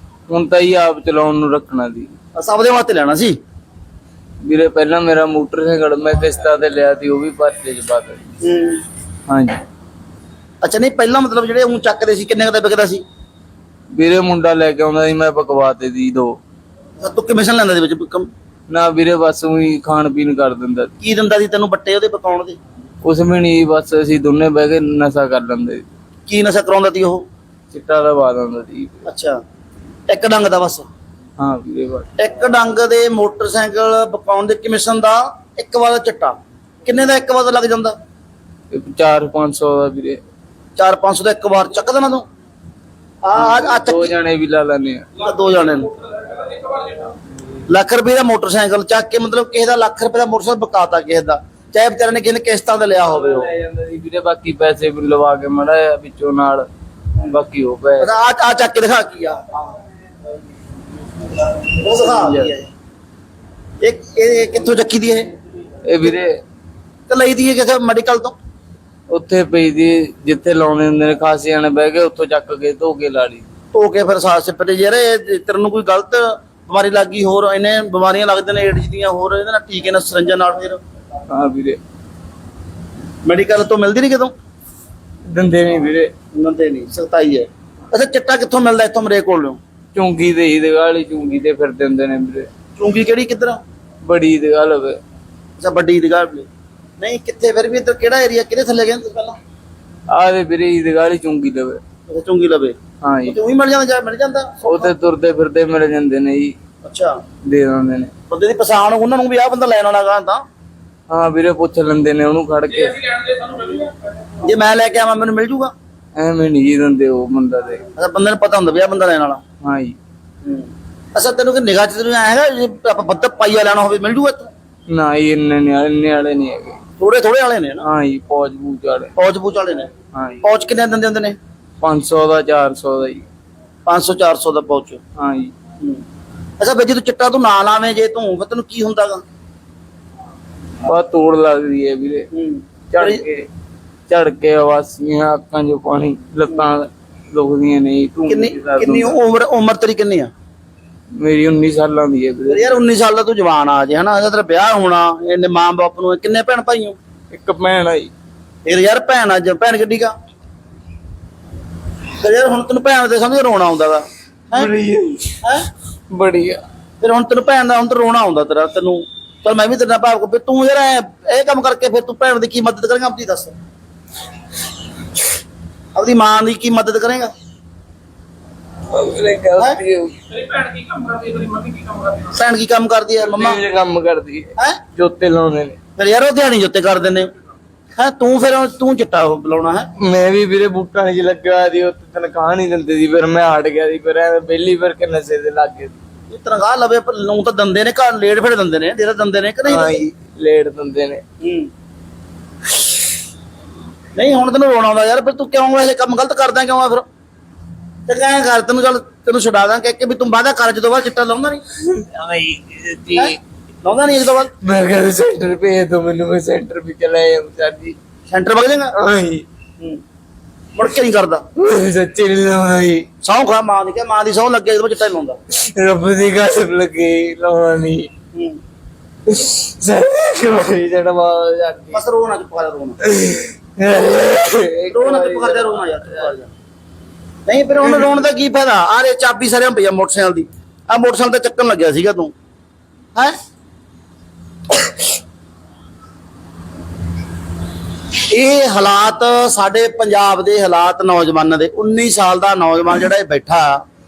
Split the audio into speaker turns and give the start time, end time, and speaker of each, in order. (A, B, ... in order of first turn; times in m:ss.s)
0:00.3-0:02.1 A
0:02.4-0:03.4 B
0:04.4-0:08.3 A
0:08.4-0:08.8 B
0:09.3-0:09.6 A
0:10.6-0:13.0 B
0:13.9-0:16.4 A
0:17.0-0:18.3 B
0:18.7-0:20.9 A
0:21.0-0:22.6 B
0:23.0-0:25.8 A
0:26.3-0:27.2 B
0:27.7-0:29.0 A
0:29.0-0:29.4 B
0:30.1-0:30.8 B
0:31.4-0:32.1 A
0:32.2-0:38.0 B
0:38.7-0:40.2 A
0:40.8-0:42.2 B
0:43.2-0:44.1 B
0:43.3-0:45.1 A
0:45.2-0:45.9 B
0:47.7-0:53.5 B
0:53.1-0:56.7 A
0:57.2-0:58.1 A
0:58.0-0:59.7 B
1:01.7-1:02.7 B
1:02.0-1:02.5 A
1:03.8-1:05.3 B
1:05.8-1:06.4 A
1:07.1-1:08.4 B
1:09.1-1:13.5 A
1:13.7-1:20.8 B
1:21.3-1:21.8 A
1:23.2-1:24.3 B
1:25.3-1:26.1 A
1:26.3-1:29.6 B
1:30.0-1:32.5 A
1:32.8-1:33.6 B
1:34.0-1:35.0 A
1:35.6-1:36.5 B
1:37.0-1:39.4 B
1:40.1-1:41.8 A
1:42.1-1:42.8 B
1:43.0-1:43.4 A
1:43.3-1:44.9 B
1:44.6-1:46.6 A
1:46.8-1:47.2 B
1:47.4-1:48.1 A
1:48.3-1:50.4 B
1:51.1-1:53.5 A
1:54.4-1:55.7 B
1:56.2-1:57.8 A
1:58.0-1:59.4 B
1:59.6-2:00.0 A
2:00.4-2:04.5 B
2:04.9-2:06.8 A
2:07.0-2:07.9 B
2:07.8-2:09.1 A
2:09.2-2:09.9 B
2:10.1-2:10.4 A
2:10.4-2:11.4 B
2:11.8-2:13.3 A
2:13.9-2:15.0 B
2:15.2-2:15.5 A
2:16.6-2:19.2 B
2:20.8-2:22.3 A
2:22.3-2:23.2 B
2:22.9-2:23.5 A
2:24.1-2:29.2 A
2:28.3-2:30.3 B
2:31.2-2:32.8 A
2:32.5-2:37.0 B
2:37.3-2:38.1 A
2:38.6-2:40.1 B
2:42.2-2:44.7 B
2:44.5-2:45.4 A
2:45.4-2:45.7 B
2:46.1-2:46.6 A
2:47.0-2:53.6 B
2:56.0-2:57.3 B
2:58.9-3:02.3 A
3:02.3-3:03.6 B
3:03.2-3:05.8 A
3:06.0-3:07.3 B
3:08.0-3:09.9 B
3:10.0-3:16.0 A
3:16.3-3:20.0 B
3:19.7-3:21.2 A
3:21.4-3:21.7 B
3:24.2-3:27.1 B
3:28.1-3:31.6 B
3:31.8-3:33.4 A
3:33.2-3:34.5 B
3:34.6-3:38.0 A
3:38.3-3:39.0 B
3:39.0-3:39.4 A
3:40.8-3:41.4 B
3:41.6-3:43.1 A
3:43.2-3:45.4 B
3:45.5-3:48.1 A
3:49.3-3:52.0 A
3:51.9-3:53.0 B
3:53.0-3:55.9 A
3:54.9-3:56.5 B
3:57.5-4:02.3 B
4:08.3-4:13.8 B